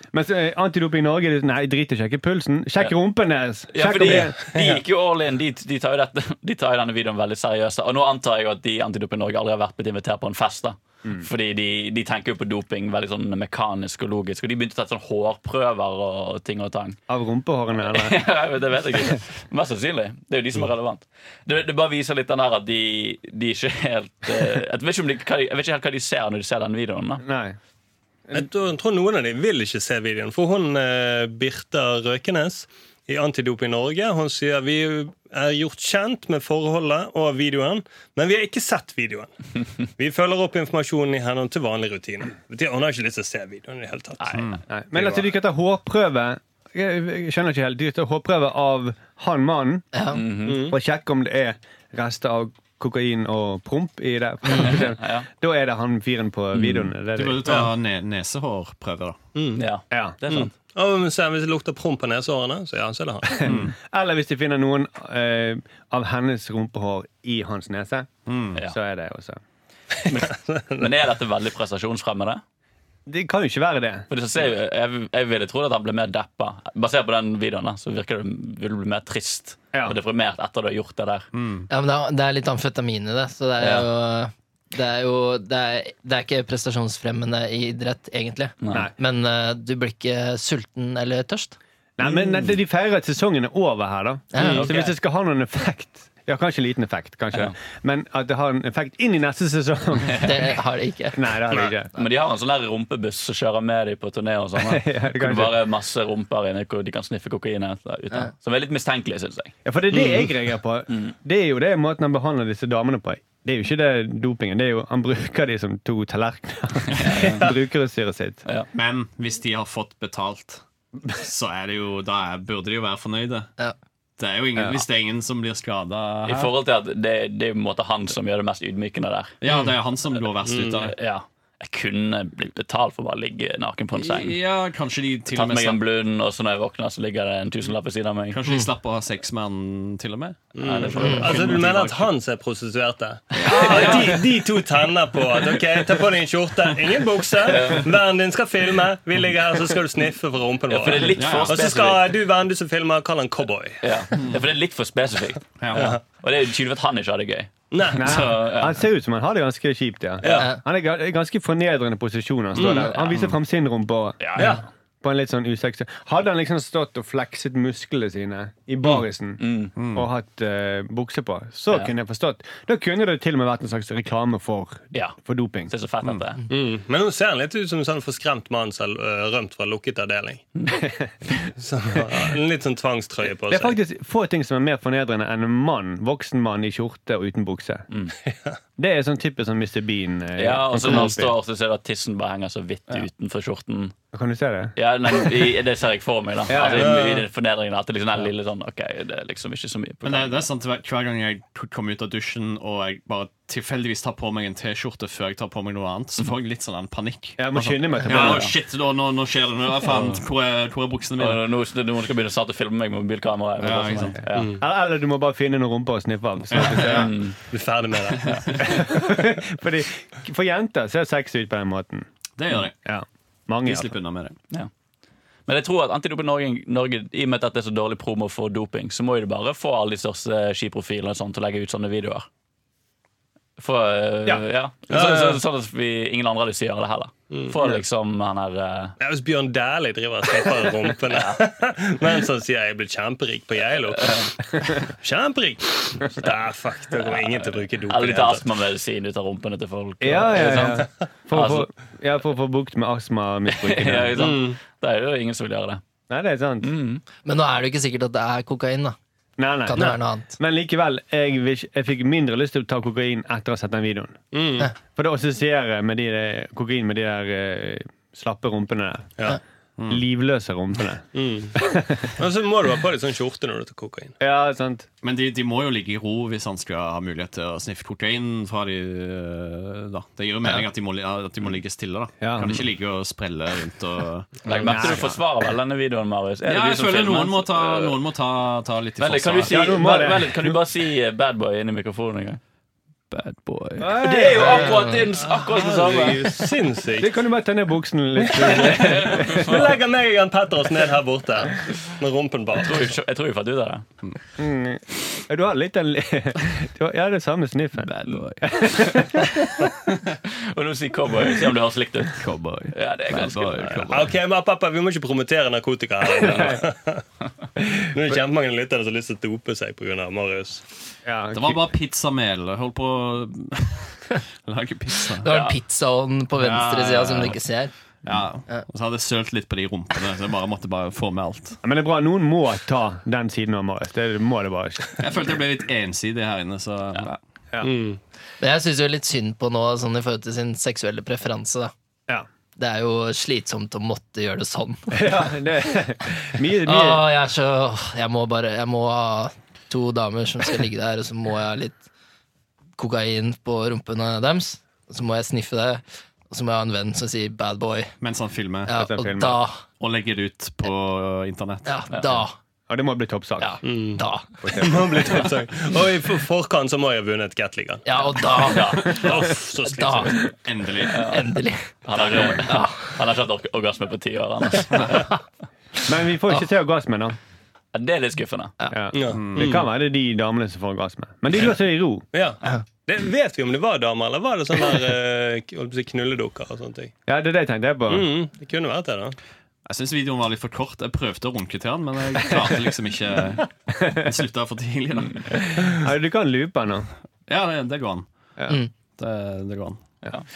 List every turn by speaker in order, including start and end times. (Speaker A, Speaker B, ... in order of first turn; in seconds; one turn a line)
Speaker A: 0.1-4.3
Speaker B: 3.7-17.0
Speaker C: 4.5-4.8
Speaker A: 17.1-18.2
Speaker B: 17.9-27.2
Speaker A: 27.2-27.6
Speaker C: 28.3-39.3
Speaker C: 40.0-44.3
Speaker B: 44.2-44.5
Speaker D: 44.3-44.6
Speaker A: 44.7-49.9
Speaker C: 44.9-45.2
Speaker E: 49.9-50.2
Speaker B: 50.1-50.7
Speaker C: 50.4-50.8
Speaker A: 50.4-57.5
Speaker B: 54.6-55.3
Speaker D: 57.1-59.2
Speaker C: 57.5-57.7
Speaker C: 59.4-59.6
Speaker B: 59.5-60.5
Speaker A: 59.9-60.2
Speaker C: 60.3-63.5
Speaker A: 63.4-69.4
Speaker D: 63.4-63.7
Speaker D: 68.3-68.6
Speaker B: 70.0-72.4
Speaker C: 70.1-70.9
Speaker A: 73.0-74.1
Speaker B: 74.1-81.3
Speaker D: 81.3-81.7
Speaker E: 81.7-91.6
Speaker B: 83.6-83.9
Speaker B: 88.6-88.9
Speaker A: 92.0-100.3
Speaker E: 94.3-94.6
Speaker C: 94.4-94.7
Speaker B: 94.5-94.9
Speaker E: 100.2-101.2
Speaker A: 101.1-101.9
Speaker B: 101.9-109.5
Speaker A: 104.6-105.6
Speaker A: 109.6-118.4
Speaker C: 109.9-110.3
Speaker B: 116.9-117.5
Speaker D: 118.7-123.5
Speaker D: 124.2-126.5
Speaker B: 126.2-129.4
Speaker D: 129.4-130.9
Speaker C: 130.4-130.9
Speaker B: 130.9-134.4
Speaker D: 133.9-135.8
Speaker B: 135.3-138.4
Speaker D: 138.3-142.1
Speaker C: 140.5-153.8
Speaker B: 140.6-141.6
Speaker E: 141.0-141.2
Speaker D: 143.4-144.2
Speaker B: 143.4-144.1
Speaker B: 147.4-147.9
Speaker B: 150.7-152.1
Speaker D: 151.1-151.7
Speaker B: 153.8-158.8
Speaker D: 155.6-156.0
Speaker C: 155.7-156.0
Speaker C: 157.7-158.2
Speaker A: 157.9-175.7
Speaker C: 160.2-160.5
Speaker E: 160.3-160.6
Speaker C: 162.6-162.9
Speaker B: 162.7-162.9
Speaker B: 164.2-164.6
Speaker C: 164.4-164.6
Speaker B: 168.9-169.7
Speaker D: 169.8-170.1
Speaker B: 175.7-176.4
Speaker C: 176.5-180.4
Speaker A: 180.8-181.1
Speaker C: 181.6-183.7
Speaker A: 183.5-187.9
Speaker C: 188.3-188.6
Speaker A: 188.8-191.3
Speaker B: 190.4-193.9
Speaker A: 194.1-194.7
Speaker B: 194.8-200.4
Speaker A: 196.5-197.0
Speaker C: 196.6-197.2
Speaker D: 200.0-211.4
Speaker A: 207.4-208.5
Speaker B: 208.1-208.5
Speaker B: 211.2-214.6
Speaker D: 213.6-214.2
Speaker C: 214.3-214.6
Speaker A: 214.6-217.1
Speaker D: 216.5-217.2
Speaker B: 216.7-217.4
Speaker C: 217.5-218.7
Speaker D: 218.1-218.8
Speaker A: 218.6-222.1
Speaker D: 222.4-222.7
Speaker A: 222.8-223.9
Speaker D: 223.6-224.4
Speaker B: 225.5-232.3
Speaker B: 233.6-238.9
Speaker C: 234.9-235.4
Speaker C: 237.3-237.8
Speaker C: 239.0-248.4
Speaker B: 241.1-241.4
Speaker B: 243.9-244.3
Speaker B: 246.9-251.7
Speaker A: 250.0-254.3
Speaker B: 253.5-255.8
Speaker C: 254.2-254.6
Speaker A: 256.1-256.7
Speaker B: 256.6-257.0
Speaker E: 257.2-258.9
Speaker A: 259.4-264.2
Speaker E: 259.6-260.4
Speaker C: 264.3-264.7
Speaker A: 264.9-269.3
Speaker A: 269.9-271.0
Speaker C: 271.1-274.1
Speaker A: 271.6-272.1
Speaker A: 274.2-274.9
Speaker D: 275.0-285.2
Speaker A: 282.2-282.6
Speaker B: 284.4-287.9
Speaker A: 284.6-285.0
Speaker D: 286.4-289.8
Speaker B: 289.0-292.4
Speaker A: 289.5-290.6
Speaker D: 293.1-294.0
Speaker A: 293.8-295.0
Speaker B: 294.0-296.4
Speaker C: 294.4-297.1
Speaker A: 297.0-299.7
Speaker C: 298.3-303.0
Speaker B: 298.5-299.8
Speaker B: 302.6-303.9
Speaker A: 304.4-309.4
Speaker D: 307.8-309.5
Speaker B: 310.4-313.9
Speaker D: 312.1-314.1
Speaker C: 313.9-317.0
Speaker C: 317.8-320.6
Speaker A: 321.0-321.6
Speaker D: 321.3-325.3
Speaker E: 325.2-327.7
Speaker B: 325.3-325.5
Speaker D: 326.4-327.4
Speaker D: 328.0-331.6
Speaker A: 331.6-335.0
Speaker D: 335.0-337.2
Speaker C: 337.6-338.0
Speaker E: 338.4-341.7
Speaker E: 342.6-345.2
Speaker A: 344.9-347.1
Speaker E: 346.6-351.9
Speaker E: 352.8-357.9
Speaker D: 358.0-358.7
Speaker E: 358.6-359.6
Speaker A: 358.8-359.4
Speaker D: 359.8-361.8
Speaker E: 361.6-362.4
Speaker A: 362.7-363.6
Speaker C: 363.6-367.9
Speaker E: 363.9-364.3
Speaker A: 364.4-365.3
Speaker E: 367.9-369.1
Speaker B: 368.4-369.1
Speaker C: 368.9-370.3
Speaker E: 369.7-370.2
Speaker D: 370.4-371.1
Speaker E: 370.9-372.9
Speaker B: 370.9-371.3
Speaker B: 371.9-375.1
Speaker A: 375.9-377.1
Speaker B: 377.7-378.5
Speaker A: 378.7-382.1
Speaker C: 378.9-379.6
Speaker D: 379.1-379.6
Speaker C: 382.1-386.9
Speaker A: 387.1-388.1
Speaker C: 387.9-389.2
Speaker D: 389.6-395.4
Speaker A: 395.3-396.9
Speaker D: 397.3-398.1
Speaker D: 398.9-399.9